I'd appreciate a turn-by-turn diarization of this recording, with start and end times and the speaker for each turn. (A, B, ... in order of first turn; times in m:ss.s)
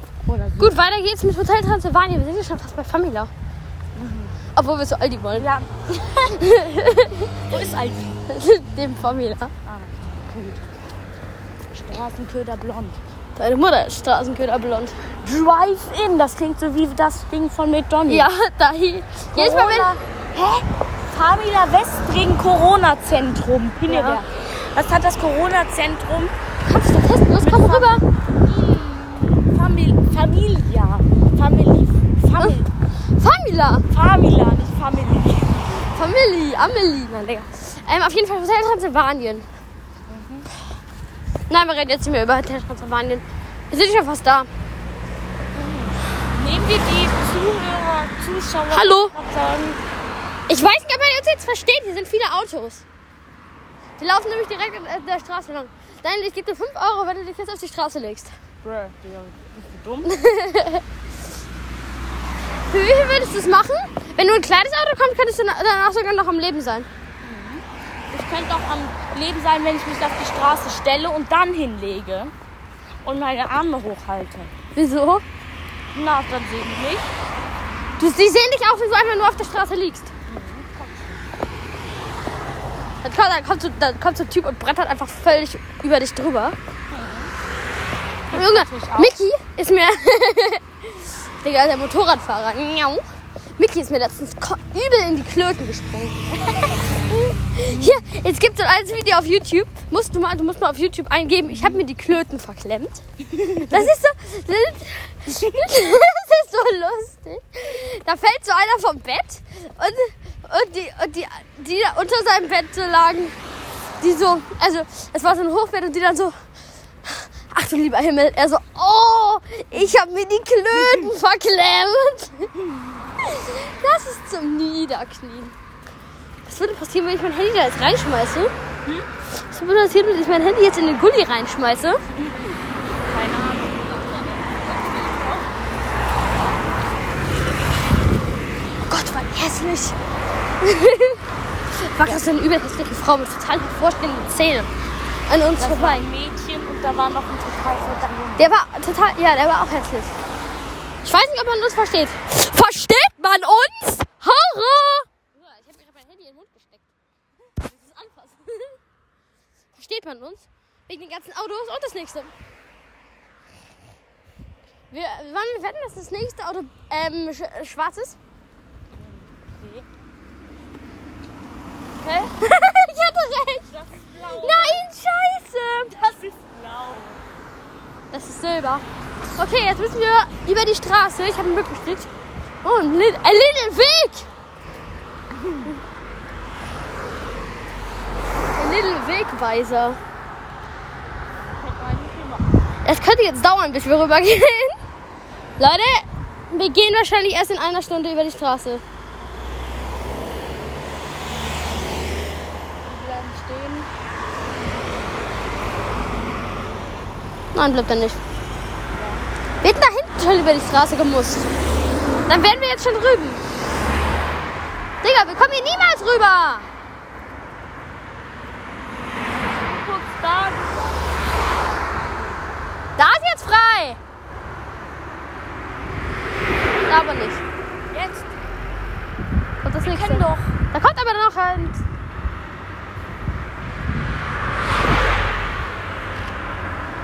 0:00.2-0:00.8 A
0:00.6-0:03.3 B
0:04.0-0:04.4 A
0:04.6-0:05.5 B
0:05.4-0:06.4 A
0:06.2-0:07.5 B
0:07.5-0:08.2 A
0:08.3-0:09.5 B
0:09.6-0:10.7 A
0:11.7-0:13.0 A
0:13.4-0:15.0 B
0:15.2-0:18.3 A
0:18.1-0:20.0 B
0:19.4-0:26.3 A
0:23.9-0:24.2 B
0:26.6-0:28.0 B
0:27.4-0:32.7 A
0:33.2-0:33.9 B
0:33.9-0:35.6 A
0:35.9-0:39.5 B
0:40.1-0:40.5 A
0:41.5-0:44.5 B
0:45.5-0:49.8 A
0:48.7-0:49.1 B
0:50.5-0:52.8 B
0:54.0-0:58.3 B
0:58.6-1:00.1 A
1:00.0-1:00.8 B
1:02.7-1:06.9 B
1:07.2-1:12.3 A
1:13.0-1:14.5 A
1:14.8-1:15.2 B
1:15.9-1:17.1 A
1:18.0-1:20.1 B
1:20.3-1:21.2 A
1:23.0-1:26.6 B
1:26.9-1:27.3 A
1:28.3-1:29.2 A
1:28.3-1:33.0 B
1:33.6-1:43.0 B
1:37.6-1:38.1 A
1:41.5-1:41.8 A
1:43.3-1:43.9 A
1:43.6-1:53.4 B
1:45.3-1:45.7 A
1:54.0-1:56.4 B
1:57.0-2:02.5 B
2:00.8-2:01.1 A
2:02.6-2:03.0 A
2:03.2-2:05.5 B
2:06.4-2:08.5 B
2:09.4-2:12.0 B
2:12.1-2:15.5 A
2:18.9-2:20.0 B
2:20.6-2:21.2 B
2:21.7-2:24.7 B
2:25.3-2:26.0 B
2:25.6-2:28.5 A
2:28.4-2:30.1 B
2:31.0-2:36.8 B
2:37.6-2:38.8 B
2:39.8-2:42.3 B
2:44.9-2:48.2 B
2:49.0-2:49.9 A
2:52.1-2:53.7 B
2:53.7-2:54.9 A
2:54.4-2:56.0 B
2:55.9-2:57.2 A
2:58.1-2:58.8 B
2:59.4-3:02.1 B
3:02.6-3:04.3 B
3:05.3-3:05.7 A
3:08.5-3:10.0 B
3:11.5-3:12.4 A
3:12.8-3:14.8 B
3:15.6-3:18.8 B
3:22.8-3:23.9 A
3:27.5-3:28.2 B
3:28.9-3:29.3 A
3:29.6-3:31.5 B
3:32.3-3:33.4 B
3:35.0-3:36.7 B
3:39.4-3:41.0 A
3:43.0-3:44.0 B
3:46.9-3:47.4 B
3:47.9-3:48.3 A
3:49.6-3:51.8 B
3:49.8-3:50.6 A